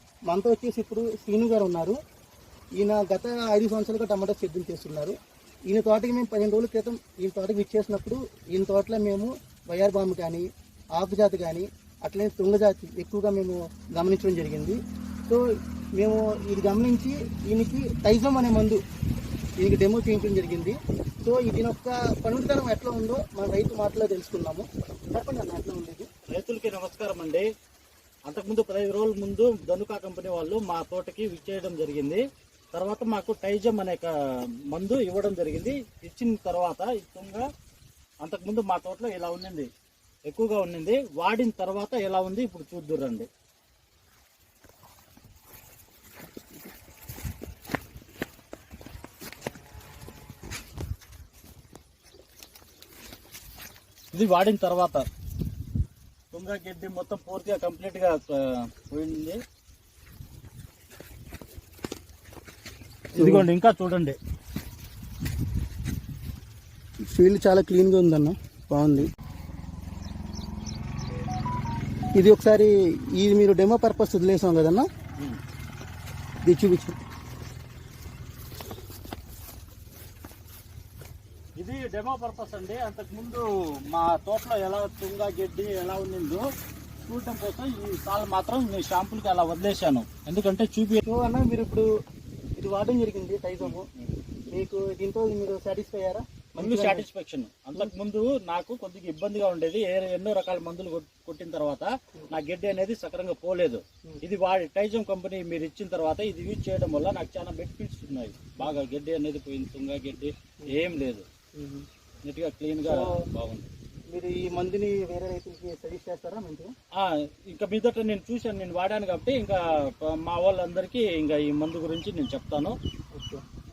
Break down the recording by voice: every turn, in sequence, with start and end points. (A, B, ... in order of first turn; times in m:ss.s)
0:00.3-0:02.0 A
0:02.8-0:05.1 A
0:05.7-0:10.4 A
0:11.0-0:14.8 A
0:16.0-0:18.8 A
0:19.6-0:26.1 A
0:26.3-0:27.4 B
0:28.3-0:32.2 B
0:32.7-0:34.1 B
0:34.7-0:37.4 B
0:38.2-0:39.7 B
0:40.3-0:43.3 B
0:54.1-0:55.0 B
0:56.3-0:59.4 B
1:03.2-1:03.4 A
1:03.2-1:04.2 B
1:07.1-1:09.1 A
1:12.2-1:14.8 A
1:16.4-1:16.9 A
1:21.6-1:26.4 B
1:27.1-1:31.0 B
1:31.0-1:31.8 A
1:32.6-1:33.8 A
1:33.6-1:34.1 B
1:34.5-1:37.0 A
1:36.6-1:51.2 B
1:51.6-1:51.8 A
1:52.2-1:53.7 B
1:52.8-1:53.3 A
1:54.1-1:56.7 A
1:56.9-2:02.8 B
2:03.1-2:03.4 A